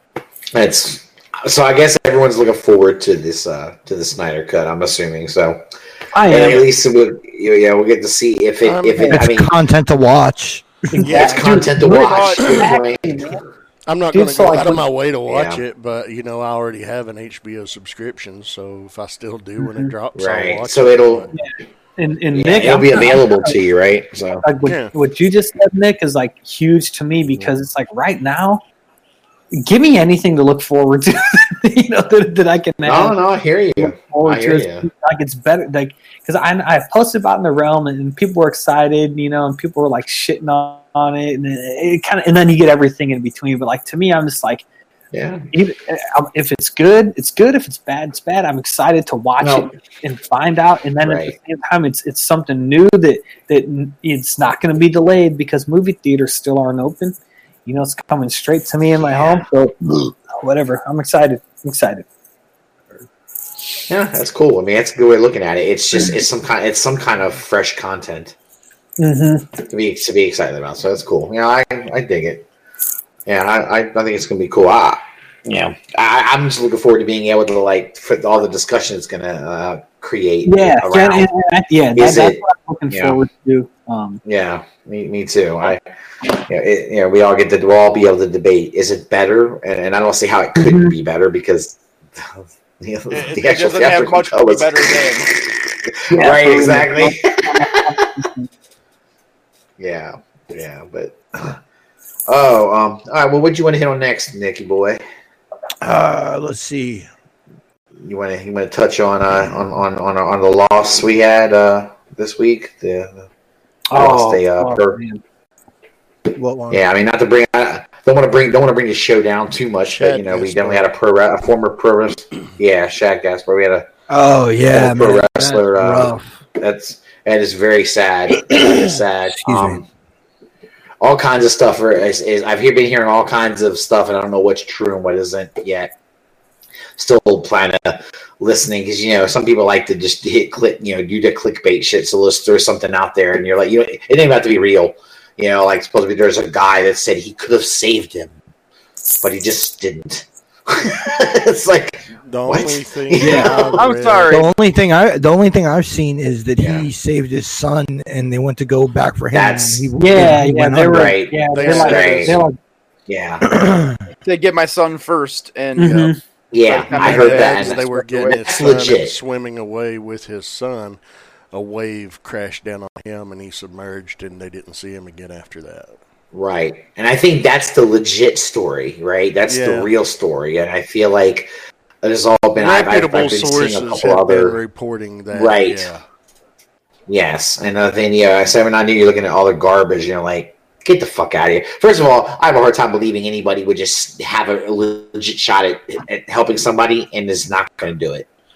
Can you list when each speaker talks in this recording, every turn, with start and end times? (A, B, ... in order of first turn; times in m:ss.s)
0:00.6-0:05.6 A
0:06.1-0:06.7 B
0:06.3-0:09.5 A
0:08.6-0:09.2 C
0:09.1-0:11.0 D
0:10.9-0:13.4 B
0:11.0-0:13.4 A
0:11.0-0:11.6 C
0:11.9-0:12.8 E
0:13.9-0:21.3 C
0:14.1-0:14.8 B
0:15.3-0:15.6 A
0:19.6-0:19.9 B
0:20.2-0:21.4 A
0:21.3-0:23.6 B
0:22.3-0:24.4 A
0:24.4-0:28.6 B
0:24.7-0:24.9 C
0:29.6-0:33.2 B
0:32.8-0:34.9 A
0:33.8-0:44.6 B
0:45.1-0:45.5 A
0:45.5-1:02.0 B
0:49.4-0:49.7 A
0:51.0-0:51.4 A
0:59.0-0:59.5 A
1:03.9-1:08.4 A
1:09.0-1:09.5 B
1:09.6-1:12.4 A
1:13.3-1:21.3 A
1:20.4-1:24.2 B
1:22.0-1:23.2 A
1:24.2-1:25.8 A
1:26.5-1:37.4 A
1:30.6-1:30.9 B
1:33.1-1:35.3 E
1:36.1-1:38.5 B
1:39.8-1:41.6 A
1:42.3-1:45.0 A
1:45.8-1:47.1 D
1:48.0-1:53.3 A
1:53.9-1:55.2 B
1:53.9-1:55.0 A
1:56.4-1:56.8 D
1:56.7-2:03.9 A
1:59.9-2:01.0 C
2:04.1-2:06.4 D
2:04.7-2:09.8 A
2:08.5-2:09.8 D
2:11.0-2:15.9 A
2:17.0-2:28.4 A
2:29.2-2:33.8 A
2:32.2-2:34.4 C
2:33.2-2:34.5 E
2:34.3-2:41.2 D
2:36.6-2:36.9 A
2:39.3-2:39.9 A
2:40.0-2:42.6 B
2:40.9-2:42.4 A
2:41.5-2:42.4 C
2:43.1-2:43.4 A
2:43.4-2:44.0 D
2:44.2-2:48.5 E
2:45.8-2:46.2 B
2:46.5-2:47.8 A
2:46.9-2:51.0 C
2:48.5-2:49.2 A
2:51.5-2:56.0 C
2:56.3-3:01.5 A
2:59.5-2:59.9 C
3:02.0-3:04.6 A
3:02.6-3:06.0 C
3:05.3-3:05.9 A
3:07.1-3:18.3 A